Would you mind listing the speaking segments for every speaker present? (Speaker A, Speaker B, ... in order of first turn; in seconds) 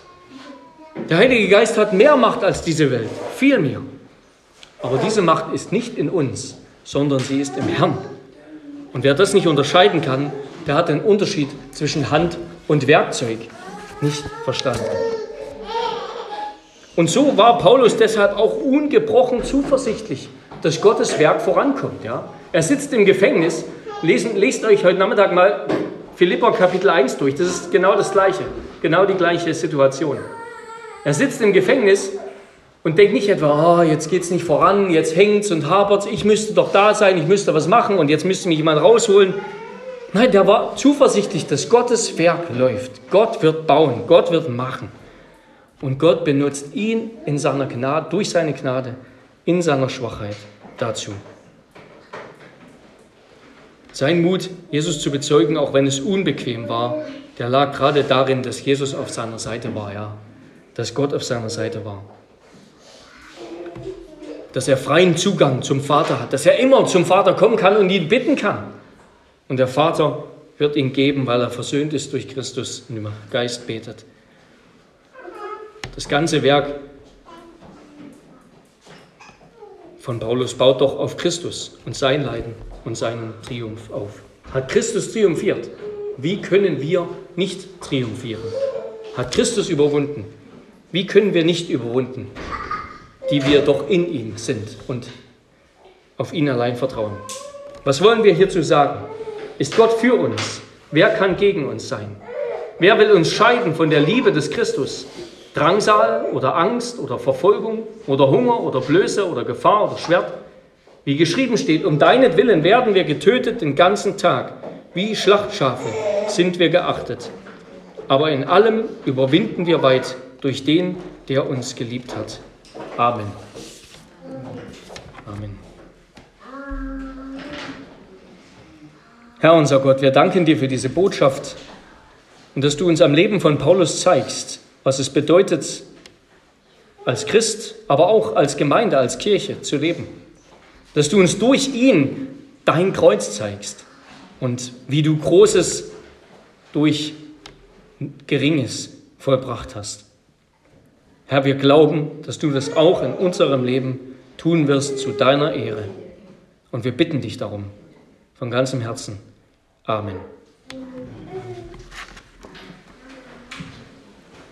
Speaker A: 1.1-3.8, 4.8-8.1, 8.9-15.1, 16.9-30.3, 31.0-32.1, 32.8-39.4, 40.1-44.9, 45.8-51.2, 53.9-60.2, 60.7-62.1, 64.5-68.7, 69.5-74.0, 75.9-76.8, 80.0-88.6, 89.1-90.3, 90.9-92.3, 93.3-95.1, 96.2-97.2, 97.8-99.1, 99.6-102.2, 102.8-110.3, 111.0-117.3, 118.1-122.4, 123.0-123.4, 125.2-125.6, 129.4-131.6, 132.5-135.8, 137.0-140.1, 140.9-143.8, 144.4-145.9, 146.7-147.2, 148.0-150.1, 151.3-155.9, 156.7-157.7, 158.3-159.2, 159.8-160.3